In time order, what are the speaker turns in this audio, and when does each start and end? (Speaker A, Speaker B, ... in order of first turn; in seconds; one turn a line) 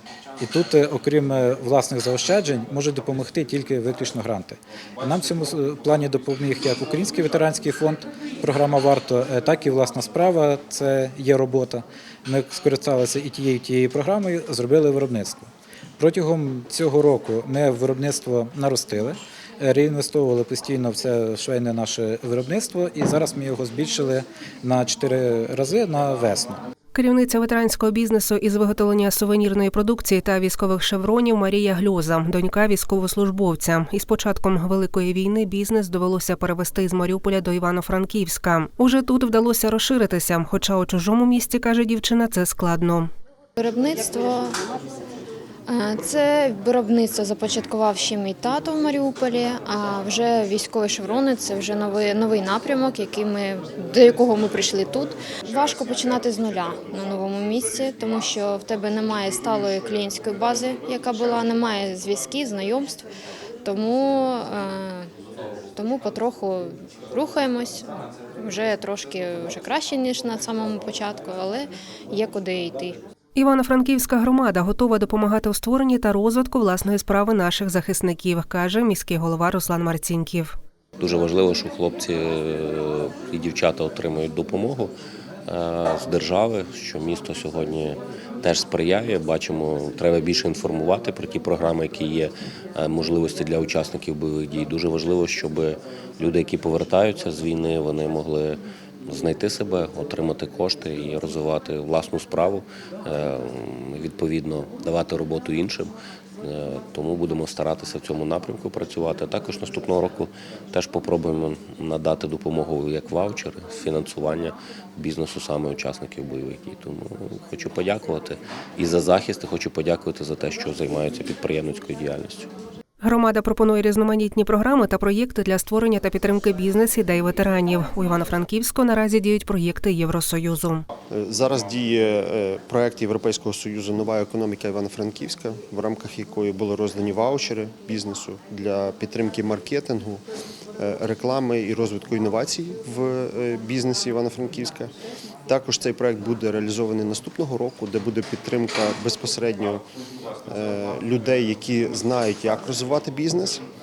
Speaker A: 0.4-26.6
Speaker B: 26.9-43.1
Speaker C: 43.6-44.5
Speaker C: 45.7-63.0
Speaker C: 63.6-65.1
Speaker C: 65.8-67.8
Speaker C: 68.4-73.0
Speaker B: 73.3-80.6
Speaker D: 81.0-84.9
Speaker D: 85.5-122.5
Speaker B: 123.0-130.8
Speaker E: 131.1-140.2
Speaker E: 140.8-144.9
Speaker E: 145.5-149.8
Speaker E: 150.5-153.6